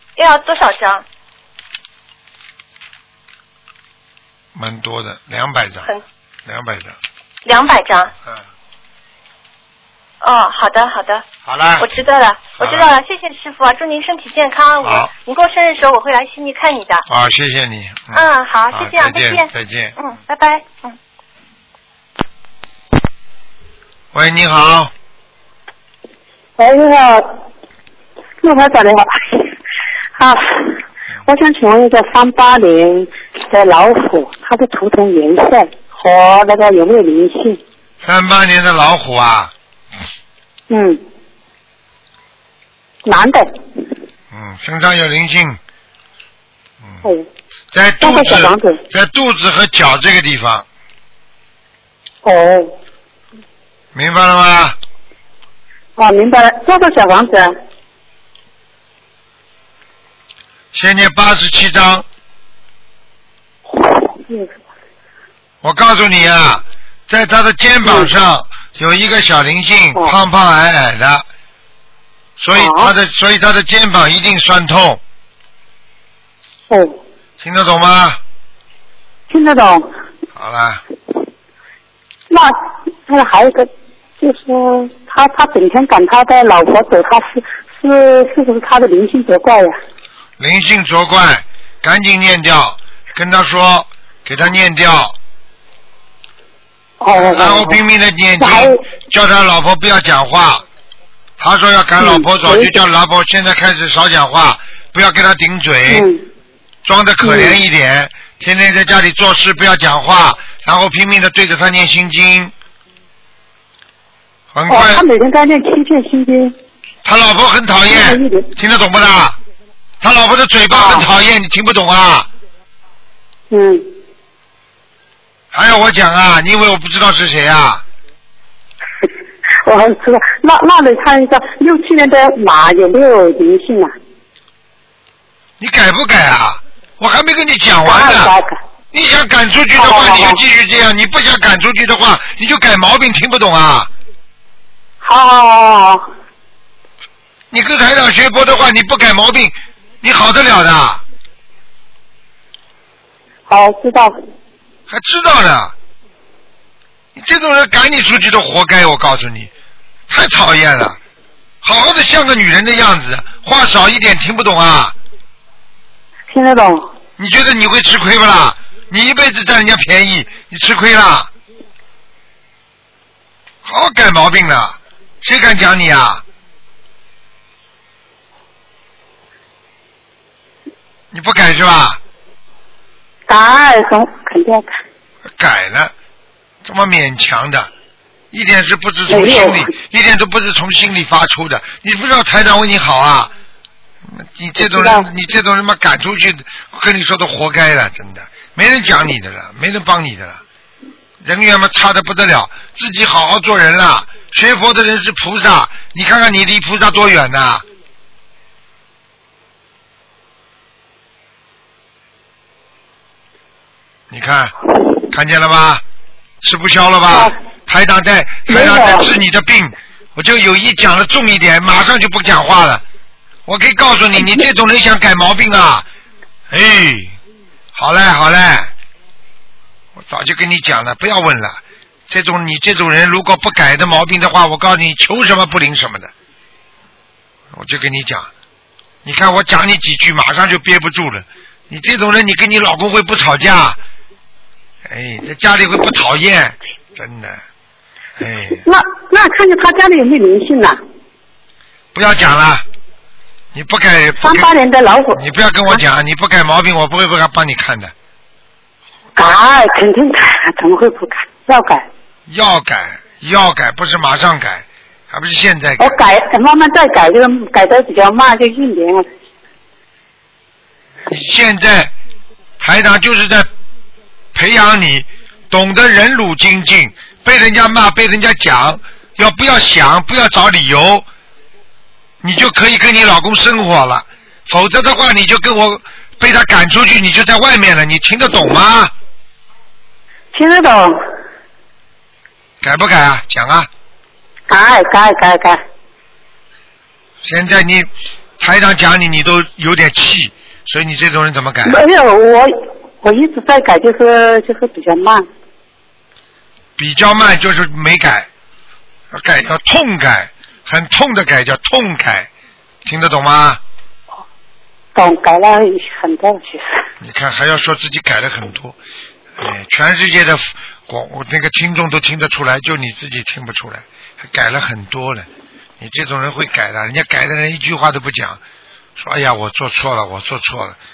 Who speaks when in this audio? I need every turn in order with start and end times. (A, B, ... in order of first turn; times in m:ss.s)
0:00.2-0:01.0 A
0:04.5-0:05.9 B
0:06.4-0:07.0 B
0:07.4-0:08.1 A
0:10.2-0:11.2 A
0:11.4-0:11.9 B
0:11.8-0:17.0 A
0:12.6-0:12.9 B
0:14.8-0:15.1 B
0:17.1-0:20.0 B
0:18.1-0:21.0 A
0:24.1-0:24.9 B
0:26.6-0:27.4 C
0:28.4-0:29.5 C
0:30.2-0:37.6 C
0:38.0-0:39.5 B
0:40.7-0:41.0 C
0:43.0-0:43.5 C
0:44.3-0:45.6 B
0:47.7-0:50.6 B
0:48.0-0:48.8 C
0:52.2-0:52.7 C
0:53.9-0:54.8 B
0:56.0-0:57.5 C
1:00.7-1:02.0 B
1:03.7-1:04.5 C
1:05.6-1:11.2 B
1:07.8-1:08.1 C
1:12.4-1:15.0 B
1:12.5-1:12.9 C
1:16.7-1:17.0 C
1:17.4-1:18.2 B
1:19.3-1:19.9 C
1:20.4-1:20.8 B
1:22.3-1:29.8 C
1:30.4-1:35.1 B
1:37.0-1:37.8 C
1:37.1-1:40.6 B
1:38.4-1:38.8 C
1:41.4-1:46.1 B
1:42.0-1:42.8 C
1:45.9-1:46.2 C
1:46.8-1:52.5 B
1:47.2-1:47.6 C
1:54.5-1:55.0 B
1:54.7-1:56.5 C
1:57.0-1:59.4 B
1:57.9-1:58.5 C
2:00.0-2:02.3 B
2:00.7-2:01.0 C
2:03.5-2:03.8 C
2:05.5-2:07.8 B
2:09.6-2:13.9 C
2:15.6-2:18.3 B
2:17.8-2:18.6 C
2:18.9-2:23.9 B
2:19.8-2:20.4 C
2:25.0-2:26.0 C
2:27.5-2:31.0 B
2:33.5-2:34.1 C
2:34.9-2:35.7 B
2:37.1-2:39.5 B
2:40.1-2:41.0 B
2:41.6-2:44.9 B
2:46.3-2:46.9 C
2:47.2-2:51.3 B
2:53.6-2:56.2 B
3:01.1-3:02.0 B
3:03.3-3:04.7 C
3:05.4-3:05.9 B
3:06.6-3:07.7 B
3:08.3-3:13.3 B
3:09.1-3:09.7 C
3:14.1-3:20.4 B
3:14.6-3:15.1 C
3:21.2-3:27.6 B
3:34.1-3:34.5 B
3:35.1-3:35.8 B
3:36.4-3:42.8 B
3:38.5-3:39.1 C
3:43.4-3:45.8 B
3:46.5-3:47.1 B
3:47.7-3:48.7 B
3:50.0-3:56.1 B
3:57.5-3:58.3 B
3:59.0-4:03.8 B
4:04.8-4:07.4 B
4:08.2-4:08.6 B
4:08.6-4:10.8 C
4:11.9-4:12.6 B
4:13.5-4:14.5 B
4:14.2-4:15.8 C
4:15.1-4:17.9 B
4:19.2-4:21.8 C
4:22.3-4:26.0 B
4:25.8-4:29.0 C
4:31.1-4:31.9 B
4:32.6-4:33.5 B
4:34.3-4:41.0 B
4:42.2-4:48.9 B
4:50.3-4:51.0 C
4:52.6-4:53.7 B
4:54.5-4:55.6 C
4:57.2-5:01.8 B
5:01.6-5:05.3 C
5:06.8-5:08.3 B
5:09.1-5:12.3 B
5:12.8-5:13.6 B
5:14.9-5:16.8 C
5:17.0-5:18.8 B
5:19.4-5:25.3 B
5:25.8-5:28.4 B
5:29.0-5:30.8 B